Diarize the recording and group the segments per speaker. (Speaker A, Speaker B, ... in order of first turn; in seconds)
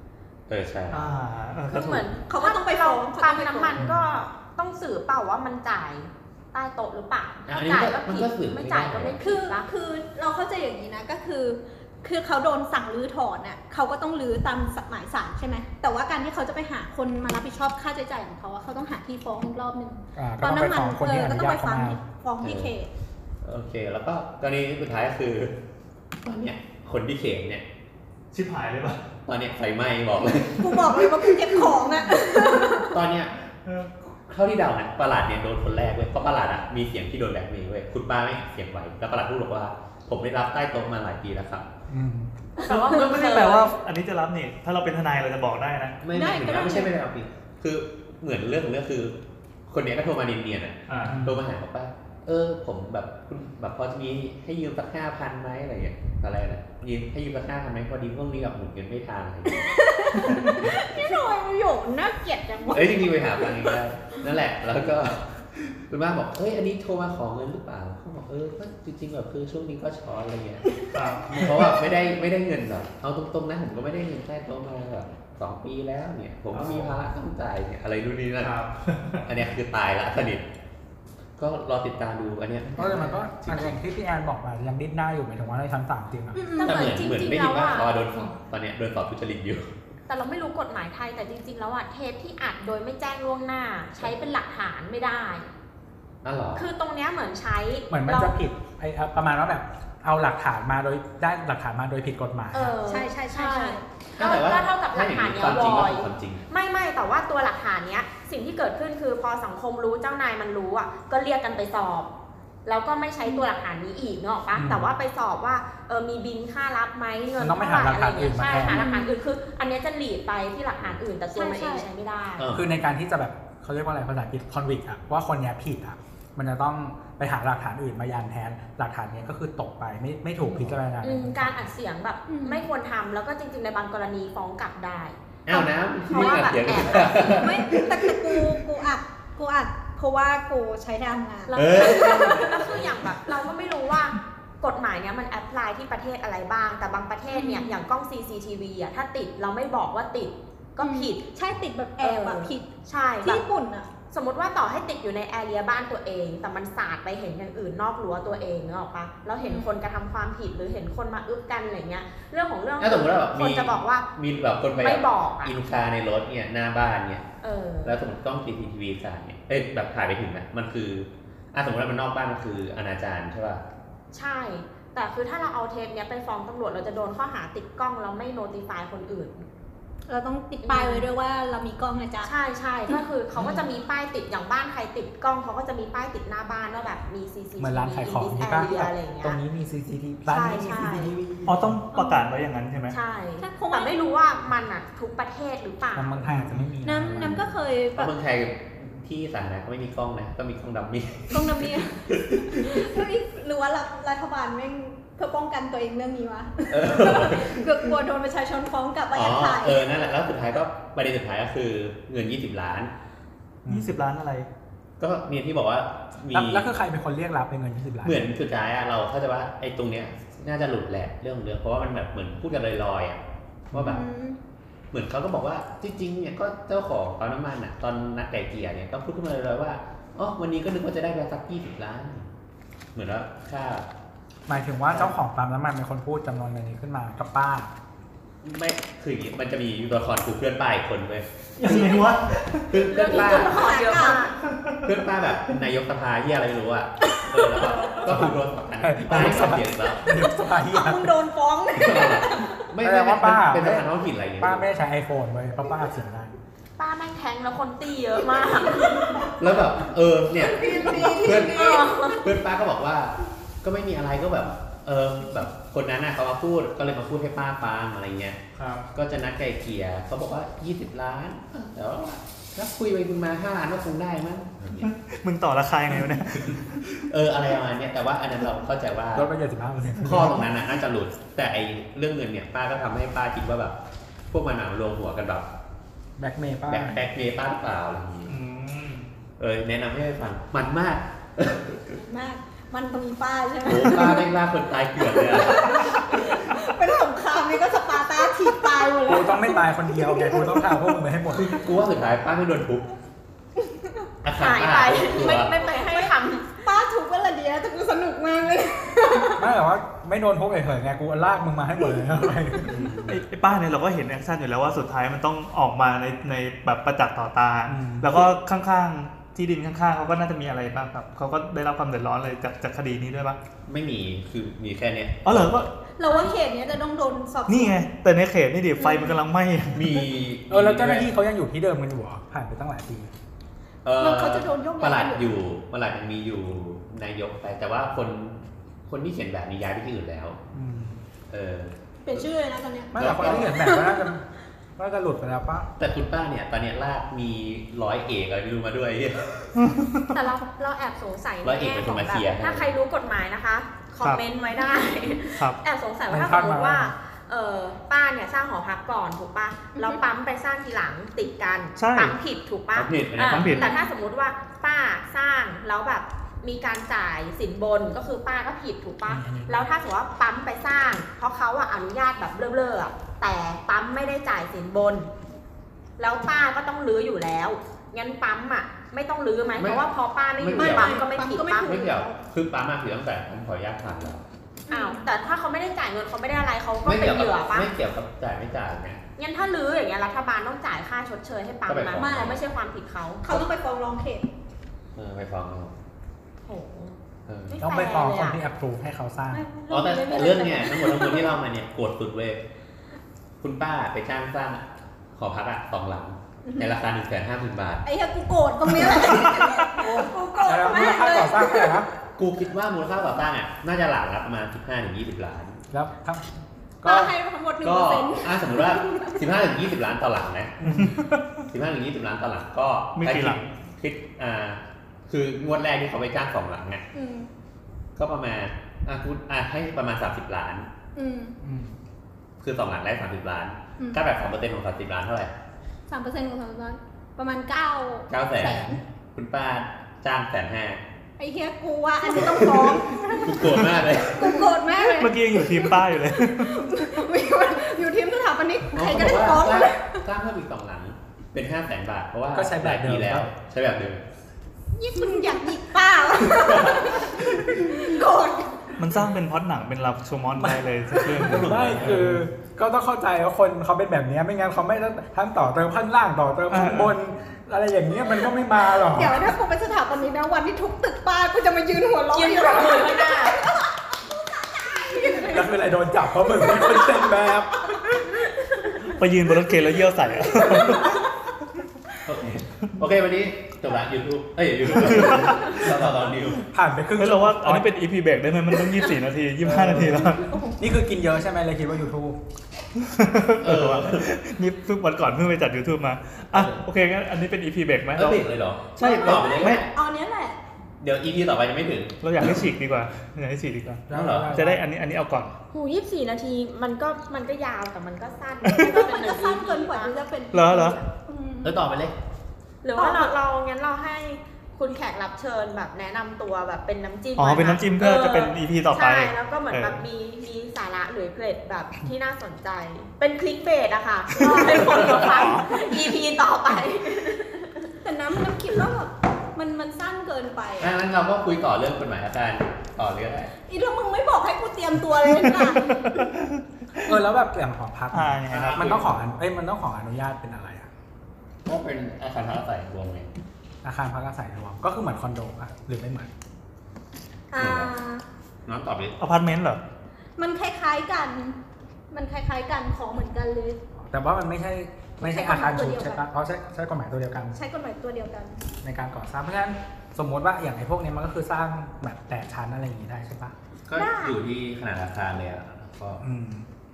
Speaker A: 0.5-1.1, 7.5-9.2, 22.4-22.7, 23.4-25.6, 26.2-27.6, 29.2-33.3, 34.1-41.7, 46.0-61.1, 62.7-70.7, 71.3-78.6, 79.2-80.5, 81.4-83.8, 86.6-89.7, 96.2-96.7, 104.2-106.4, 122.4-122.7, 135.4-138.7, 141.5-142.9, 162.8-167.2, 167.8-173.6, 197.1-203.1, 206.7-207.9, 209.1-212.9, 215.0-216.7, 218.0-224.0, 224.9-232.3, 232.9-233.9, 234.9-235.2, 238.4-242.0, 242.7-244.1, 244.8-250.1, 251.7-254.7, 259.2-268.4, 268.9-274.9, 276.3-279.3, 280.0-283.8, 284.3-285.5, 286.7-288.4, 289.4-292.0, 293.6-296.3, 301.3-302.9, 304.2-305.6, 312.6-313.2, 323.6-325.6, 329.7-331.1, 333.8-340.4, 341.3-342.3, 343.0-343.6, 345.8-349.6, 351.4-352.7, 362.7-363.6, 379.6-379.9, 380.4-381.0, 381.6-384.2, 386.8-389.0, 391.6-392.4, 394.9-395.7, 397.3-397.6, 399.7-402.4, 403.4-407.9, 408.7-409.3, 412.1-415.6, 417.6-420.6, 421.5-426.8, 427.9-430.7, 432.4-435.3, 438.1-440.8, 442.1-444.5, 448.7-454.0, 456.2-457.2, 461.2-462.2, 482.0-486.4, 493.4-494.1, 496.3-496.6, 497.9-499.7, 500.8-502.4, 503.9-504.4, 511.4-511.9, 530.6-533.3, 538.3-539.0, 541.4-543.1, 547.4-547.7, 548.4-549.0, 563.7-566.0
Speaker B: 0.9-2.1, 28.3-29.0, 42.6-46.0, 50.9-51.2, 70.9-71.6, 76.5-76.9, 78.4-79.2, 191.4-192.9, 213.7-214.5, 241.6-242.7, 244.4-244.9, 268.6-268.8, 274.8-277.0, 288.3-289.1, 313.0-323.4, 325.2-325.7, 327.5-330.0, 349.6-350.1, 355.3-355.6, 361.8-362.1, 363.2-363.7, 420.7-421.4, 422.9-423.4, 444.8-446.9, 458.8-462.1, 466.5-466.9, 478.9-481.0, 484.8-485.6, 487.0-490.2, 492.8-498.2, 499.0-499.6, 502.0-505.3, 510.3-510.8, 517.2-519.8, 524.3-525.6, 535.4-536.4, 537.9-538.8, 549.0-549.6
Speaker C: 1.7-9.7, 42.6-43.7, 86.5-87.9, 90.1-95.5, 96.5-98.3, 102.5-112.1, 112.7-122.5, 131.0-137.5, 141.5-151.2, 152.0-153.4, 154.1-164.1, 164.8-165.6, 167.4-167.9, 174.1-179.5, 180.6-181.1, 182.2-189.4, 190.3-191.1, 192.9-196.4, 242.8-244.3, 256.8-259.3, 261.4-262.3, 304.4-306.5, 326.1-326.4, 350.2-375.1, 376.0-381.8, 384.7-387.7, 389.2-393.3, 396.4-396.9, 397.5-398.4, 472.1-473.4, 505.5-509.9, 512.6-527.6
Speaker D: 2.3-3.9, 9.2-22.9, 30.6-33.0, 46.1-46.9, 59.5-63.8, 86.3-86.9, 102.8-103.8, 118.6-119.2, 121.3-121.9, 132.3-132.7, 135.5-142.8, 147.3-147.8, 150.8-153.9, 159.4-159.8, 180.1-182.3, 190.5-191.1, 191.9-192.2, 193.4-194.2, 196.8-198.1, 201.3-210.0, 223.8-224.4, 242.9-244.3, 250.1-252.6, 258.4-259.4, 260.3-262.3, 291.9-294.3, 295.0-300.6, 305.8-309.4, 326.0-327.8, 328.8-329.2, 334.0-335.3, 342.0-344.1, 350.1-350.9, 359.7-360.0, 363.6-363.9, 380.5-382.2, 384.7-385.1, 391.9-392.4, 393.2-394.3, 399.3-401.3, 406.4-406.7, 407.8-411.8, 416.8-419.2, 426.9-427.3, 430.9-431.3, 435.9-438.8, 441.2-450.0, 454.7-458.7, 468.8-475.5, 476.3-477.1, 480.4-480.9, 498.8-500.4, 508.4-511.6, 512.7-513.1, 524.3-524.6, 527.8-530.7, 533.5-536.0, 547.3-548.0, 550.2-551.4, 551.9-553.6, 555.0-556.0, 557.3-558.4, 563.7-564.2
Speaker E: 3.8-4.0, 20.1-22.0, 41.9-42.3, 51.0-51.4, 82.7-86.4, 97.9-102.8, 114.5-114.9, 117.4-118.8, 122.5-131.7, 187.6-191.8, 195.9-197.4, 213.6-213.9, 216.3-218.3, 223.7-224.0, 234.5-237.7, 248.1-251.1, 252.8-253.9, 254.4-256.3, 279.1-280.4, 286.2-287.0, 299.1-301.6, 309.4-312.9, 317.7-318.2, 330.5-333.1, 340.5-341.0, 342.9-344.2, 344.8-345.7, 356.1-356.9, 369.1-369.7, 397.6-399.4, 410.4-411.9, 415.7-417.1, 420.6-421.0, 431.4-431.7, 452.3-453.3, 460.4-469.3, 475.2-477.7, 486.5-487.7, 489.4-492.2, 503.9-504.6, 536.8-540.7, 543.6-546.1, 553.8-557.4, 558.6-563.3, 566.0-566.5